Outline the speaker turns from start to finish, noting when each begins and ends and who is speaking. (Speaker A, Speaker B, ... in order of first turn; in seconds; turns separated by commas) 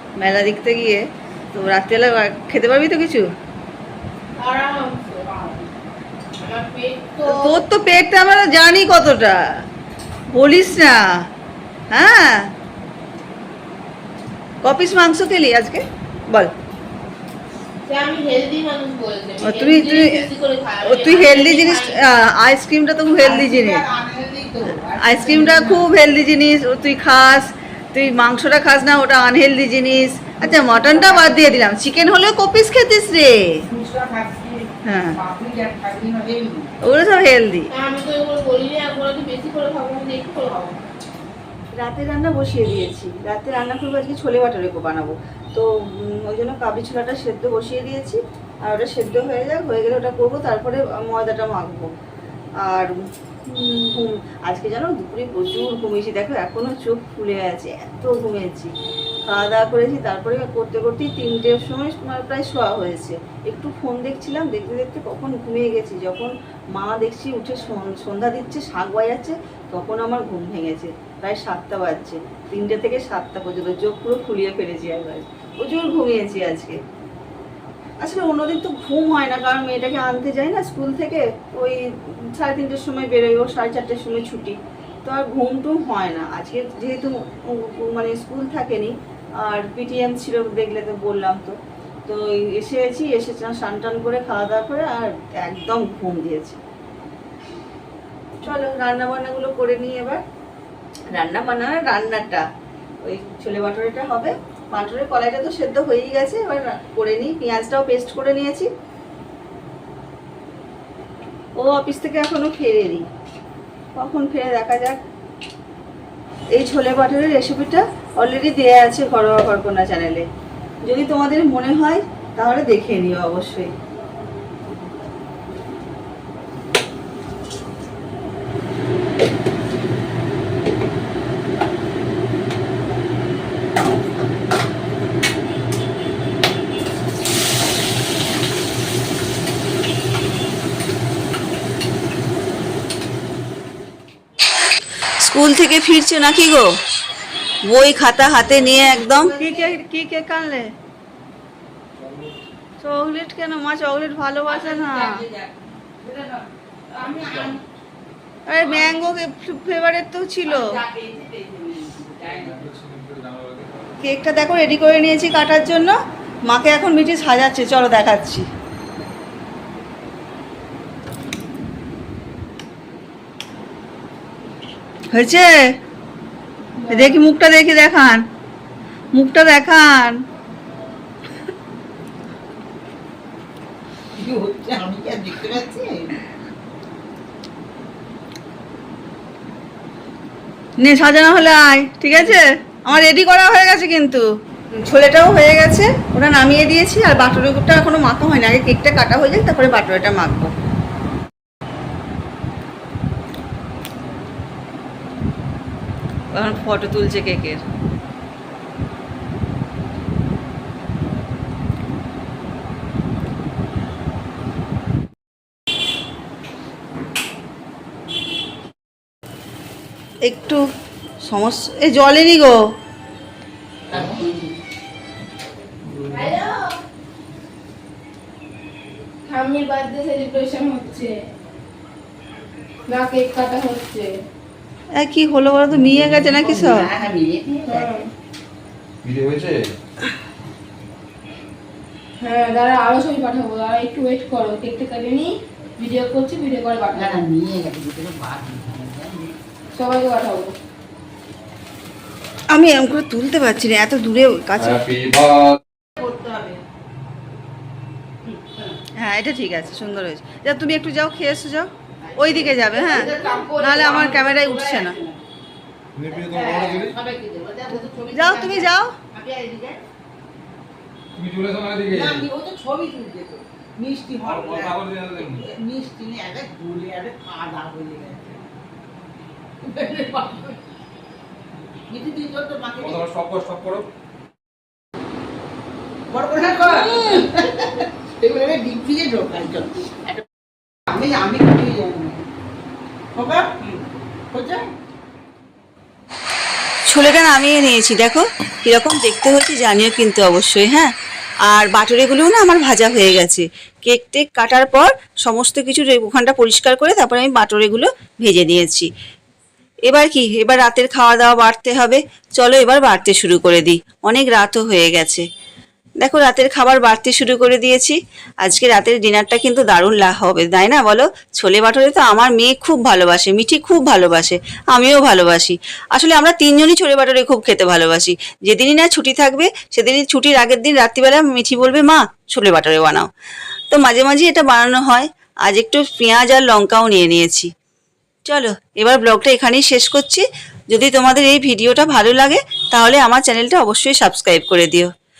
Speaker A: 0.2-3.3, Speaker B: 4.3-5.7, Speaker B: 6.4-7.6, Speaker A: 7.2-9.4, Speaker A: 10.3-11.0, Speaker A: 11.9-12.5, Speaker A: 14.6-16.5, Speaker B: 17.8-22.0, Speaker A: 19.4-20.2, Speaker A: 20.8-23.8, Speaker C: 23.2-25.9, Speaker A: 25.0-33.6, Speaker C: 30.4-31.5, Speaker C: 33.6-36.8, Speaker A: 34.8-35.2, Speaker A: 36.8-37.7, Speaker B: 37.7-40.8, Speaker A: 41.7-51.9, Speaker A: 52.6-58.7, Speaker A: 59.2-76.8, Speaker A: 78.0-96.6, Speaker A: 98.4-100.2, Speaker A: 101.1-102.4, Speaker A: 103.0-108.7, Speaker A: 111.6-113.1, Speaker A: 114.0-115.0, Speaker A: 116.5-120.2, Speaker A: 120.8-123.7, Speaker A: 145.2-146.7, Speaker A: 147.7-150.7, Speaker C: 148.4-149.7, Speaker D: 152.0-152.3, Speaker A: 152.8-155.2, Speaker B: 154.5-155.5, Speaker B: 156.9-157.6, Speaker C: 157.0-157.5, Speaker A: 158.5-160.8, Speaker B: 158.7-158.9, Speaker B: 160.5-162.4, Speaker C: 161.7-162.0, Speaker D: 162.4-163.9, Speaker A: 164.0-165.9, Speaker A: 166.5-168.4, Speaker A: 175.1-175.7, Speaker B: 176.8-177.2, Speaker A: 176.9-178.2, Speaker A: 179.1-180.2, Speaker C: 184.1-186.2, Speaker A: 190.8-194.2, Speaker A: 194.8-200.5, Speaker A: 206.3-207.6, Speaker A: 220.2-220.6, Speaker A: 221.2-222.6, Speaker C: 223.9-224.5, Speaker D: 225.8-226.3, Speaker B: 226.1-226.8, Speaker B: 229.2-231.2, Speaker B: 232.9-234.1, Speaker A: 235.0-236.9, Speaker C: 235.7-237.9, Speaker B: 237.7-238.1, Speaker D: 239.0-239.7, Speaker B: 242.2-247.2, Speaker C: 246.9-249.3, Speaker B: 249.7-250.5, Speaker A: 252.5-254.8, Speaker D: 254.6-255.6, Speaker C: 256.0-256.6, Speaker C: 258.3-258.7, Speaker A: 258.9-265.0, Speaker C: 262.0-265.2, Speaker B: 262.4-264.6, Speaker D: 265.9-266.9, Speaker C: 266.1-269.8, Speaker A: 268.1-268.9, Speaker D: 271.1-272.2, Speaker C: 271.9-278.4, Speaker D: 274.2-275.4, Speaker C: 279.6-280.6, Speaker C: 281.9-283.1, Speaker D: 282.8-283.9, Speaker C: 286.1-290.2, Speaker A: 286.9-287.2, Speaker C: 290.9-292.2, Speaker C: 293.1-293.8, Speaker C: 294.3-294.6, Speaker A: 296.9-300.9, Speaker A: 301.5-308.9, Speaker A: 309.9-315.2, Speaker A: 316.0-333.1, Speaker A: 333.7-337.5, Speaker A: 338.3-344.9